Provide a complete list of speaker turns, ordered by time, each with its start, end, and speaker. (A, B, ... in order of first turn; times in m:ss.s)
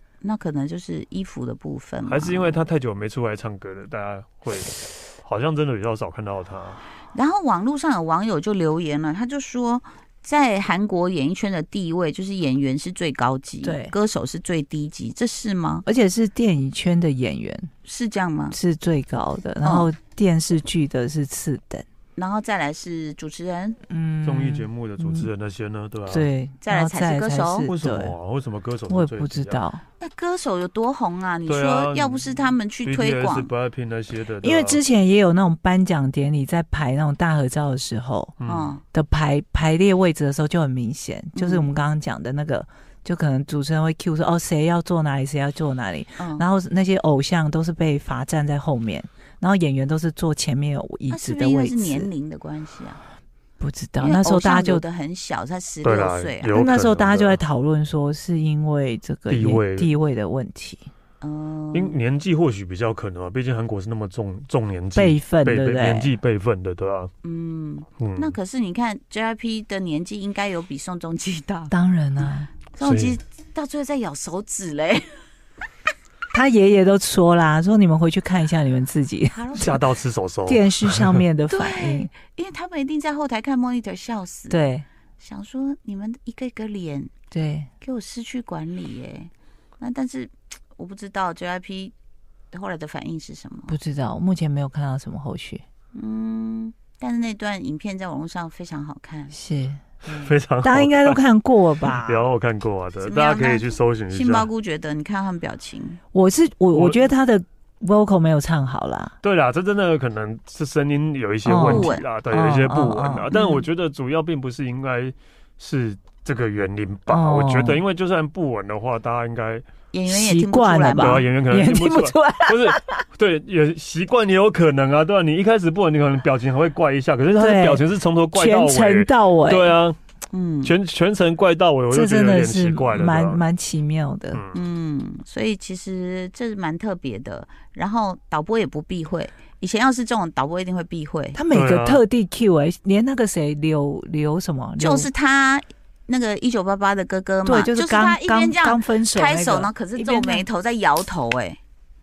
0:00.2-0:02.6 A
0:02.0-0:06.8 B
0:07.1-0:15.9 A
0:13.6-0:14.0 C
0:15.9-0:17.7 C
0:17.8-0:18.6 A
0:18.5-0:21.8 C
0:19.6-0:19.9 A
0:22.2-0:23.8 A
0:23.9-0:25.3 C
0:24.2-0:26.3 B
0:26.1-0:28.1 C
0:26.6-0:27.7 A
0:27.7-0:29.6 B
0:28.9-0:29.8 C
0:30.0-0:33.5 A
0:31.5-0:34.8 B
0:34.4-0:38.4 C
0:38.4-0:38.7 B
0:38.5-0:38.8 A
0:38.9-0:52.1 C
0:41.4-0:41.7 A
0:46.2-0:46.4 A
0:51.1-0:53.0 A
0:53.6-0:54.8 C
0:54.0-0:56.6 A
0:55.8-0:57.4 B
0:56.5-1:00.9 C
0:59.3-0:59.9 B
1:01.2-1:02.0 A
1:01.7-1:07.1 B
1:05.0-1:06.1 C
1:07.2-1:15.2 A
1:08.0-1:08.4 B
1:11.7-1:12.5 C
1:12.8-1:13.2 B
1:16.3-1:19.7 C
1:19.3-1:19.7 A
1:19.6-1:21.2 B
1:20.5-1:22.1 C
1:21.5-1:24.6 A
1:24.5-1:24.8 C
1:25.2-1:27.1 A
1:27.3-1:27.7 C
1:27.8-1:31.9 A
1:32.5-1:33.8 A
1:33.7-1:35.6 C
1:36.0-1:39.4 A
1:39.3-1:39.8 C
1:40.0-1:41.2 B
1:40.6-1:42.3 C
1:41.8-1:44.5 B
1:43.0-1:46.0 A
1:46.1-1:49.2 C
1:46.7-1:47.1 B
1:49.2-1:59.6 B
1:51.4-1:53.4 C
1:51.6-1:52.0 A
1:53.3-1:53.6 A
1:57.1-1:57.8 C
1:59.9-2:01.2 A
2:00.1-2:03.0 C
2:01.0-2:10.0 B
2:07.4-2:09.8 C
2:10.3-2:10.7 A
2:10.6-2:13.4 B
2:11.9-2:14.4 C
2:14.3-2:14.6 B
2:14.5-2:21.4 A
2:21.4-2:25.1 C
2:21.5-2:22.0 B
2:24.8-2:31.6 A
2:27.4-2:30.4 C